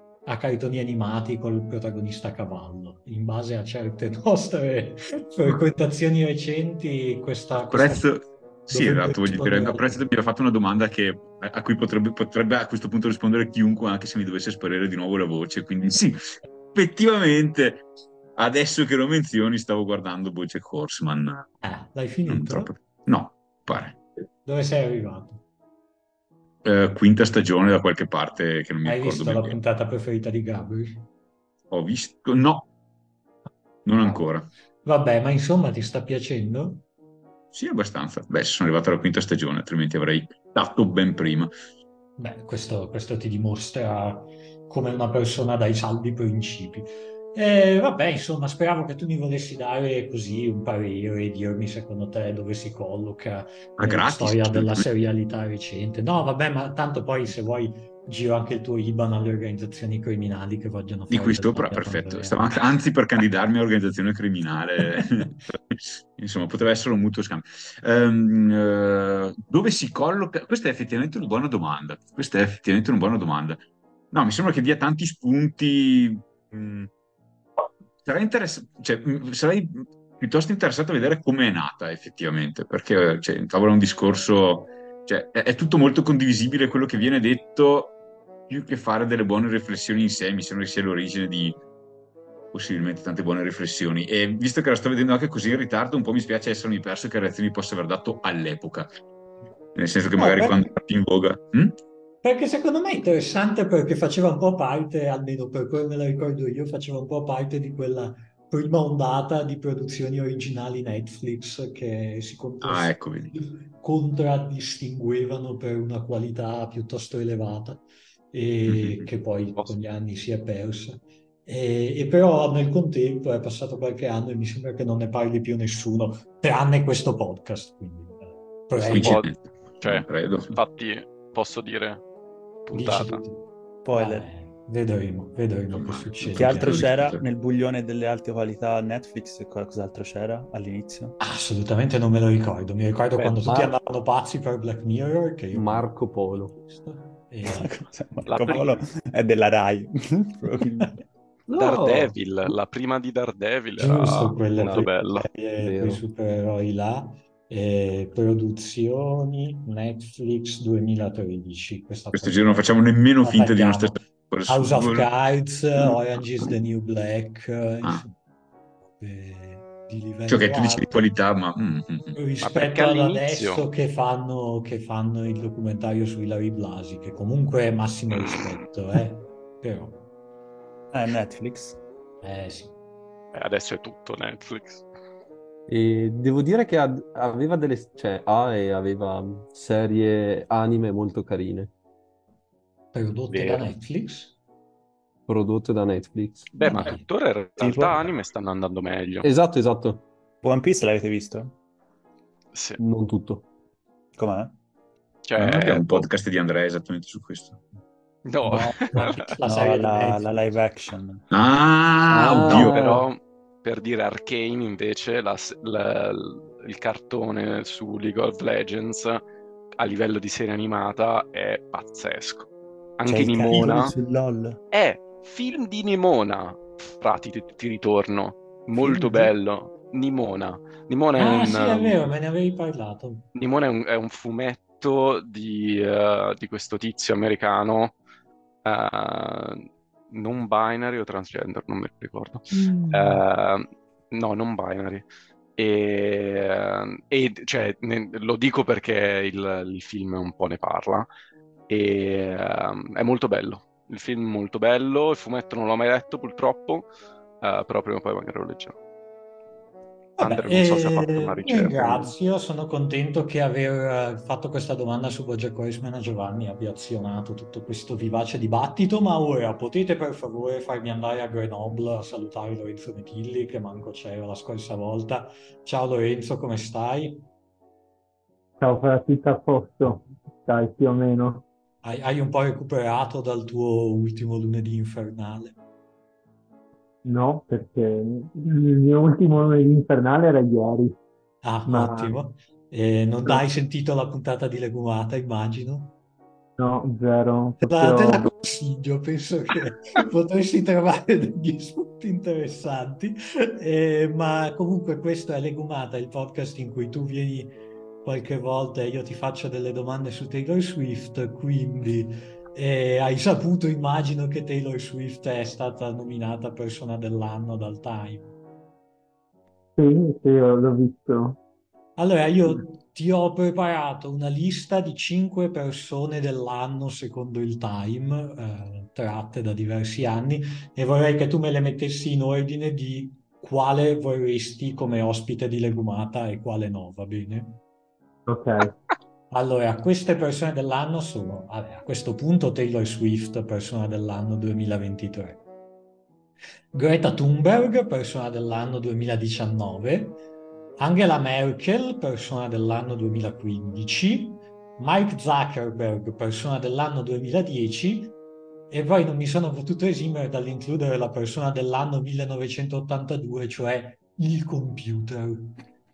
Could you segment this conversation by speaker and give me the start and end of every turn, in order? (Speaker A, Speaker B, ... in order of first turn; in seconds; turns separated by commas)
Speaker A: 0.2-8.1, Speaker B: 7.5-21.5, Speaker A: 8.7-10.0, Speaker A: 21.6-22.7, Speaker B: 22.3-24.0, Speaker A: 24.4-25.4, Speaker B: 26.6-29.6, Speaker A: 28.8-31.1, Speaker B: 31.7-32.7, Speaker B: 33.8-34.5, Speaker A: 34.8-36.8, Speaker B: 37.5-41.5, Speaker A: 42.2-62.5, Speaker B: 53.8-54.8, Speaker B: 61.1-76.9, Speaker B: 78.0-87.9, Speaker B: 88.5-91.6, Speaker B: 92.5-98.9, Speaker B: 99.7-101.7, Speaker A: 100.2-100.5, Speaker A: 102.2-117.8, Speaker B: 112.6-113.4, Speaker A: 118.3-129.3, Speaker B: 118.7-119.1, Speaker B: 128.8-130.6, Speaker C: 128.9-129.3, Speaker C: 129.8-132.0, Speaker C: 132.7-133.2, Speaker A: 132.7-136.9, Speaker D: 133.8-134.3, Speaker B: 135.7-137.2, Speaker D: 136.3-141.2, Speaker A: 141.2-145.9, Speaker E: 143.4-143.7, Speaker E: 145.5-146.6, Speaker A: 146.7-147.7, Speaker D: 147.4-151.0, Speaker C: 148.3-148.8, Speaker A: 151.5-152.1, Speaker C: 151.5-155.3, Speaker A: 153.8-168.1, Speaker E: 154.6-154.9, Speaker E: 155.6-156.0, Speaker B: 162.1-165.1, Speaker A: 169.0-171.0, Speaker B: 170.3-172.1, Speaker A: 172.1-180.1, Speaker C: 172.4-173.7, Speaker D: 180.9-181.8, Speaker A: 182.2-182.7, Speaker C: 183.3-184.8, Speaker E: 185.7-191.7, Speaker A: 192.9-194.3, Speaker E: 193.3-193.6, Speaker E: 195.3-196.5, Speaker C: 196.5-199.3, Speaker A: 196.6-197.0, Speaker D: 197.6-198.2, Speaker E: 199.2-200.0, Speaker D: 200.4-201.5, Speaker C: 202.5-202.8, Speaker E: 202.8-203.4, Speaker D: 204.2-204.5, Speaker C: 205.2-206.1, Speaker B: 205.4-207.6, Speaker C: 208.2-209.3, Speaker A: 208.4-210.3, Speaker D: 208.9-211.2, Speaker B: 211.3-212.8, Speaker E: 212.1-213.0, Speaker C: 212.5-219.2, Speaker C: 219.8-222.5, Speaker C: 223.0-223.9, Speaker D: 223.1-224.6, Speaker C: 224.7-232.1, Speaker D: 228.8-229.3, Speaker A: 231.2-233.2, Speaker C: 233.3-238.0, Speaker C: 238.6-245.1, Speaker A: 242.5-243.2, Speaker C: 245.6-251.1, Speaker C: 251.7-256.9, Speaker C: 257.4-258.8, Speaker A: 260.2-277.2, Speaker C: 260.2-262.1, Speaker F: 278.6-281.4, Speaker A: 281.8-285.5, Speaker F: 287.0-290.9, Speaker A: 291.4-295.9, Speaker F: 291.7-292.2, Speaker F: 296.6-298.3, Speaker A: 297.6-318.3, Speaker F: 319.8-321.4, Speaker A: 322.0-337.6, Speaker F: 338.3-338.7, Speaker A: 339.3-345.4, Speaker A: 346.7-350.2, Speaker A: 350.8-358.1, Speaker A: 358.7-365.6